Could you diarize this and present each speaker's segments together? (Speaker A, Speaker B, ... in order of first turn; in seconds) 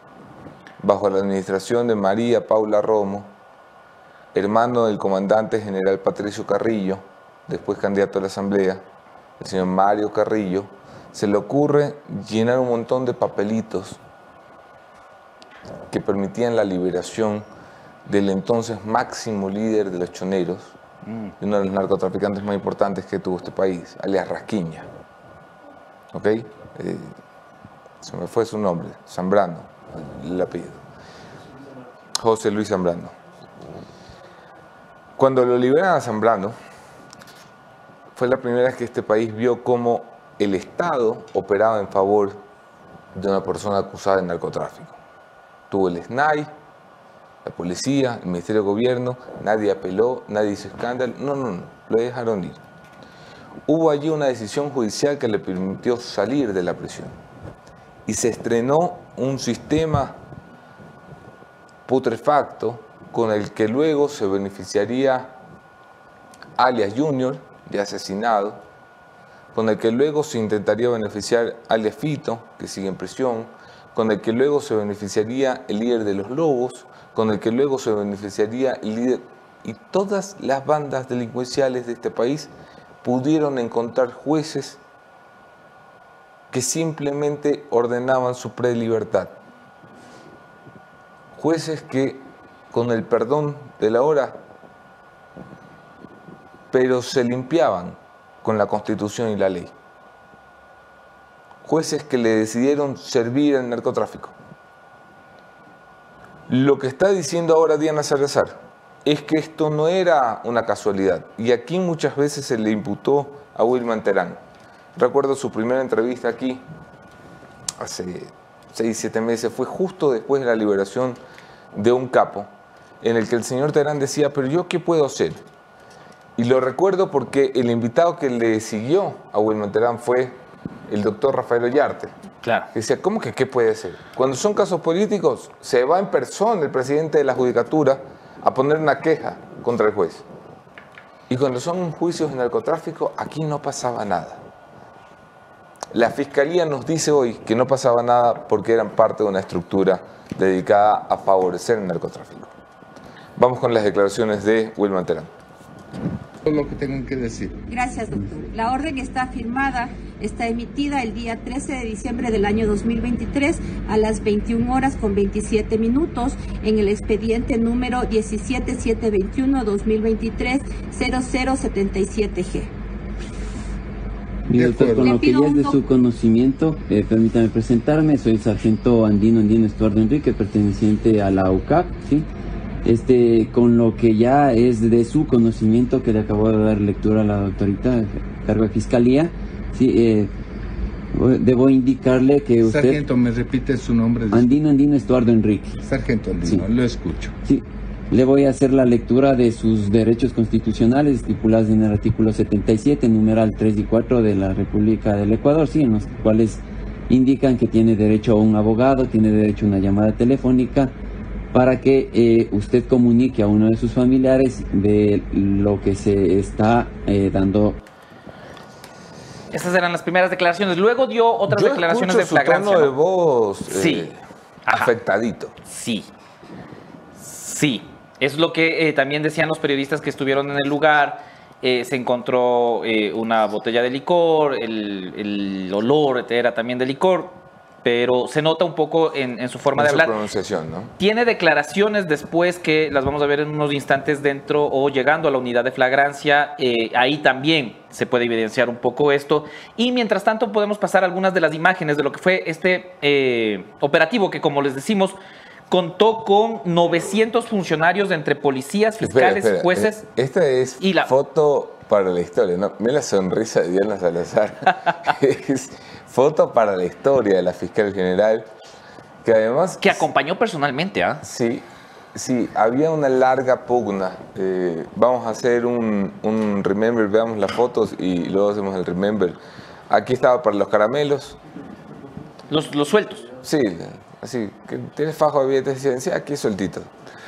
Speaker A: 0.8-3.3, 4.3-8.8, 9.4-14.0, 15.9-17.4, 18.1-20.7, 21.4-24.9, 26.1-27.1, 28.0-30.8, 32.2-33.1, 35.2-36.5, 38.1-42.4, 43.1-45.0, 45.7-46.5, 47.4-52.6, 53.7-57.1, 58.1-60.2, 61.9-65.3, 66.6-68.6, 69.5-82.5, 83.0-84.8, 86.5-89.4, 91.3-94.4, 96.7-99.7, 101.6-104.3, 106.5-114.4, 115.0-116.6, 117.8-121.2, 121.7-122.5, 123.0-125.4, 126.4-132.1, 132.7-140.2, 141.3-144.4, 145.9-152.5, 153.4-155.3, 221.5-225.5, 239.7-240.9, 259.0-268.5, 269.2-270.1, 271.2-281.4, 283.4-286.9
Speaker B: 132.4-132.7, 219.5-222.9, 223.7-224.1, 224.7-224.9, 225.6-226.1, 227.2-240.1, 241.0-255.2, 255.7-260.0, 260.8-261.1, 269.8-271.2, 282.5-283.3
Speaker C: 156.4-157.5, 174.5-175.1, 192.6-194.4, 195.8-197.3
Speaker D: 157.7-172.7, 174.8-175.8
Speaker E: 174.5-182.3, 182.8-190.3, 191.1-193.0, 194.3-195.8, 196.4-196.7, 197.4-210.9, 211.5-217.8